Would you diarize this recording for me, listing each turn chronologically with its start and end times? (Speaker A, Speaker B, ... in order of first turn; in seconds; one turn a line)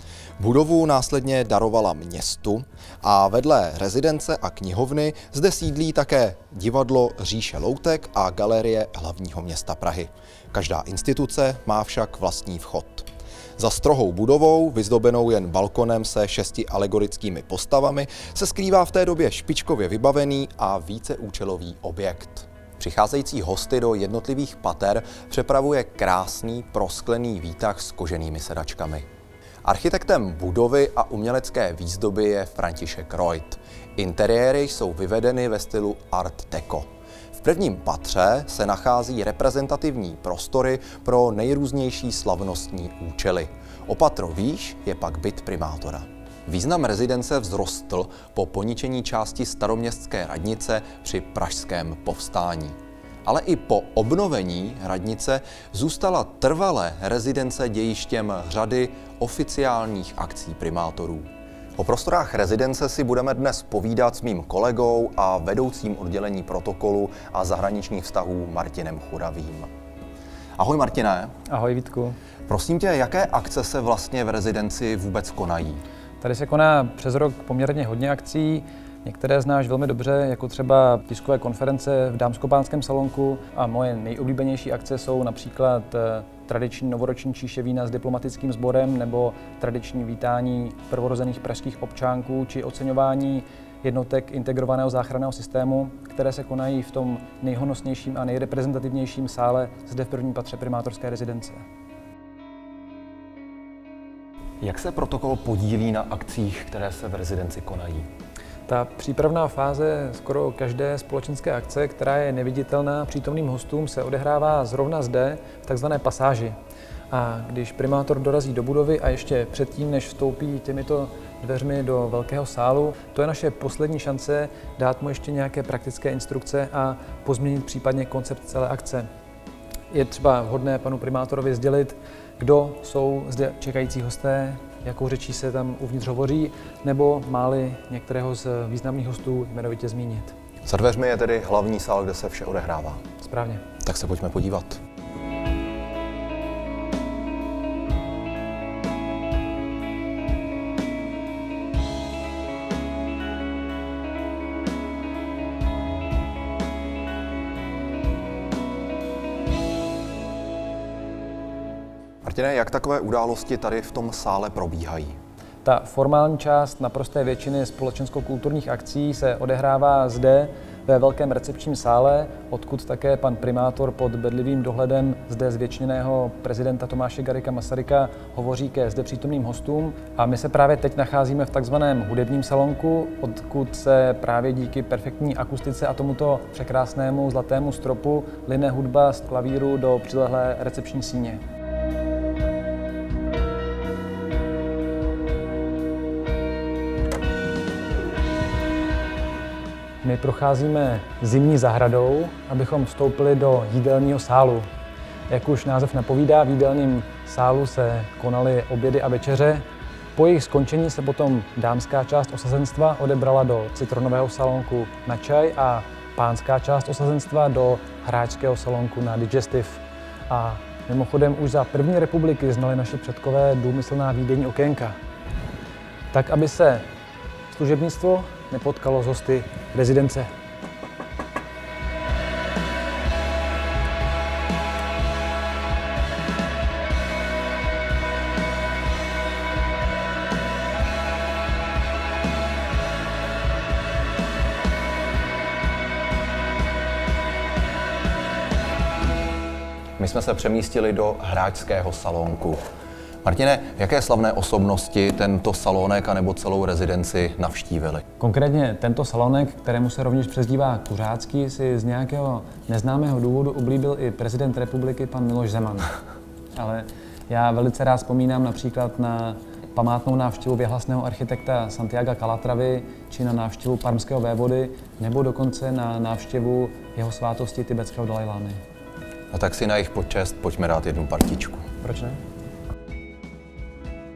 Speaker A: 0.4-29.1
Speaker A: 29.6-69.7
Speaker A: 70.6-71.3
Speaker B: 71.5-72.2
Speaker A: 72.5-75.8
Speaker B: 76.2-101.6
Speaker A: 104.6-108.1
Speaker B: 108.7-116.5
Speaker B: 117.1-129.1
Speaker B: 129.9-140.3
Speaker A: 140.6-143.0
Speaker B: 143.2-143.6
Speaker A: 143.8-144.8
Speaker A: 162.2-165.2
Speaker B: 165.6-191.4
Speaker B: 200.0-204.7
Speaker B: 205.3-209.6
Speaker B: 210.1-224.9
Speaker B: 226.1-226.8
Speaker B: 227.5-230.3
Speaker A: 250.0-252.6
Speaker A: 253.2-258.0
Speaker B: 258.2-265.9
Speaker B: 266.5-278.6
Speaker A: 279.3-281.7
Speaker B: 281.8-282.2